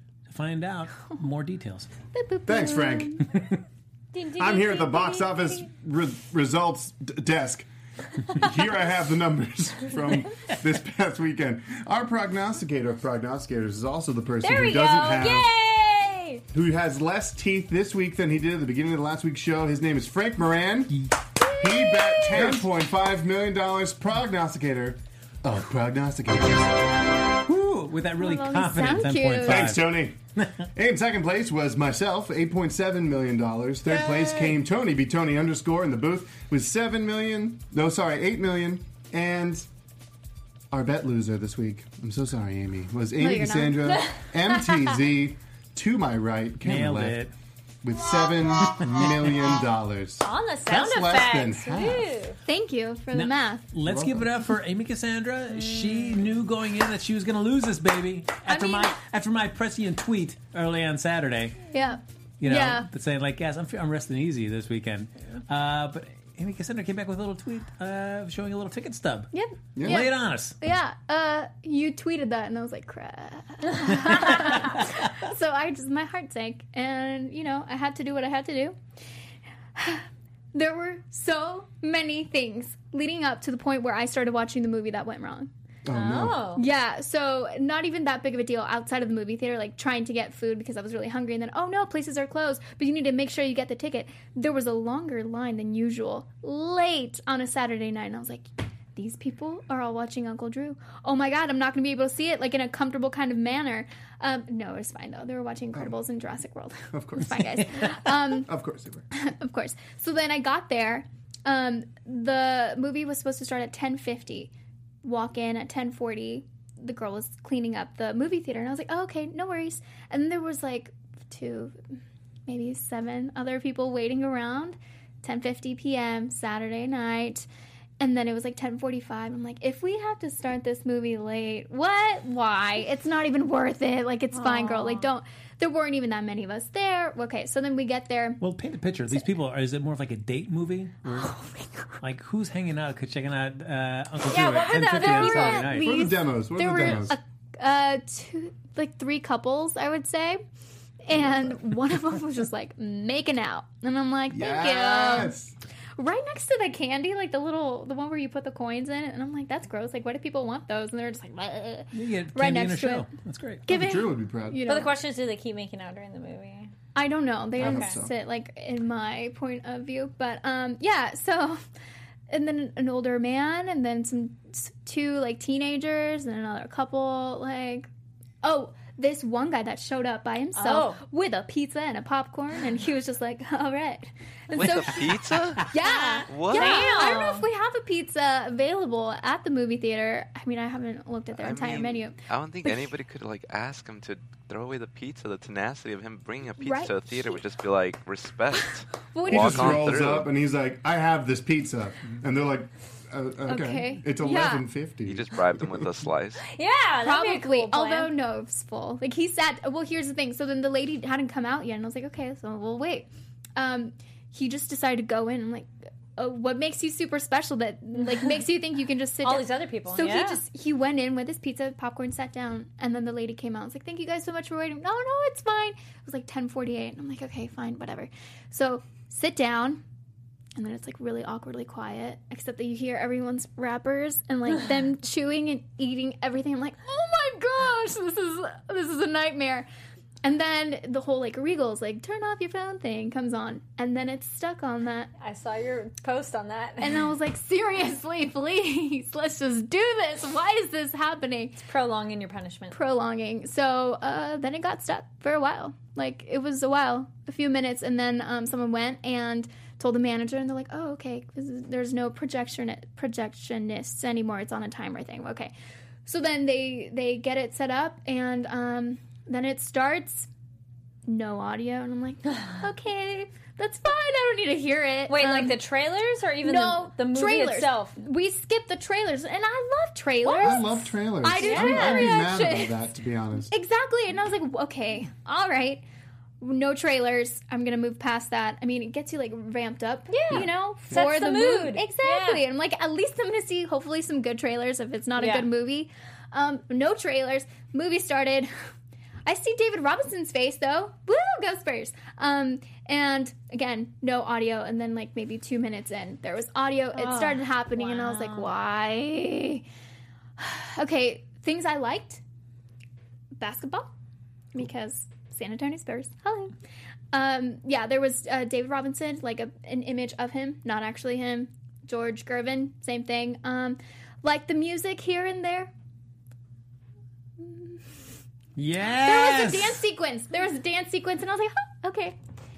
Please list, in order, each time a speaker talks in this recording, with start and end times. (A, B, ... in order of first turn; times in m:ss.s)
0:00.3-0:01.9 A
0:02.1-0:03.2 B
0:02.4-0:03.2 C
0:03.3-0:03.6 A
0:04.1-0:05.7 D
0:04.3-0:07.7 C
0:08.3-0:15.5 C
0:14.4-0:16.4 D
0:16.5-0:21.0 C
0:21.6-0:26.9 C
0:22.0-0:22.4 B
0:27.4-0:29.9 A
0:28.2-0:29.7 B
0:29.4-0:30.2 C
0:30.4-0:30.6 A
0:30.7-0:39.7 C
0:34.2-0:34.5 D
0:40.7-0:47.2 C
0:43.2-0:44.0 B
0:46.6-0:47.3 A
0:47.8-0:52.1 C
0:50.2-0:52.4 D
0:52.4-0:53.7 B
0:53.1-1:01.6 A
0:53.8-0:54.3 C
0:58.5-0:58.9 B
1:01.7-1:02.9 B
1:02.4-1:10.6 A
1:09.3-1:18.8 B
1:09.8-1:10.1 C
1:19.8-1:25.5 B
1:25.8-1:26.4 C
1:25.9-1:26.6 D
1:26.5-1:48.5 B
1:46.9-1:49.1 C
1:49.1-1:54.5 B
1:55.0-2:01.8 B
2:02.5-2:07.5 B
2:08.0-2:18.4 B
2:14.3-2:15.1 D
2:18.4-2:21.3 A
2:21.1-2:21.9 B
2:22.0-2:26.0 A
2:24.2-2:25.7 D
2:24.6-2:30.4 B
2:25.7-2:27.2 C
2:31.0-2:35.3 B
2:34.3-2:35.5 C
2:36.0-2:43.1 B
2:41.9-2:43.6 A
2:43.7-2:45.0 B
2:43.7-2:44.6 C
2:44.6-2:46.7 D
2:46.9-2:51.6 B
2:47.6-2:48.1 C
2:47.6-2:48.0 D
2:52.3-2:57.9 B
2:58.4-3:12.9 B
3:00.5-3:01.0 D
3:04.5-3:05.7 E
3:06.3-3:07.2 E
3:06.5-3:07.5 D
3:11.4-3:20.3 E
3:16.6-3:17.4 B
3:19.1-3:20.0 B
3:19.3-3:25.9 C
3:23.4-3:24.6 B
3:25.0-3:26.4 E
3:26.5-3:28.1 D
3:27.0-3:49.8 B
3:39.2-3:40.4 D
3:50.6-3:59.7 B
4:00.2-4:05.1 B
4:05.2-4:07.0 D
4:06.8-4:11.6 B
4:11.6-4:12.7 D
4:12.7-4:25.5 B
4:26.0-4:30.3 B
4:31.0-4:35.6 B
4:35.1-4:38.0 D
4:36.4-4:42.8 B
4:40.2-4:40.6 D
4:40.3-4:43.5 C
4:41.4-4:42.2 D
4:43.5-4:45.8 B
4:46.4-4:58.5 B
4:50.1-4:52.4 D
4:55.2-4:55.5 D
4:59.2-5:09.6 B
5:06.9-5:08.5 D
5:10.4-5:12.2 B
5:13.4-5:13.9 B
5:14.5-5:16.5 B
5:17.1-5:25.7 B
5:27.4-5:27.8 B
5:28.6-5:29.8 A
5:29.0-5:32.2 B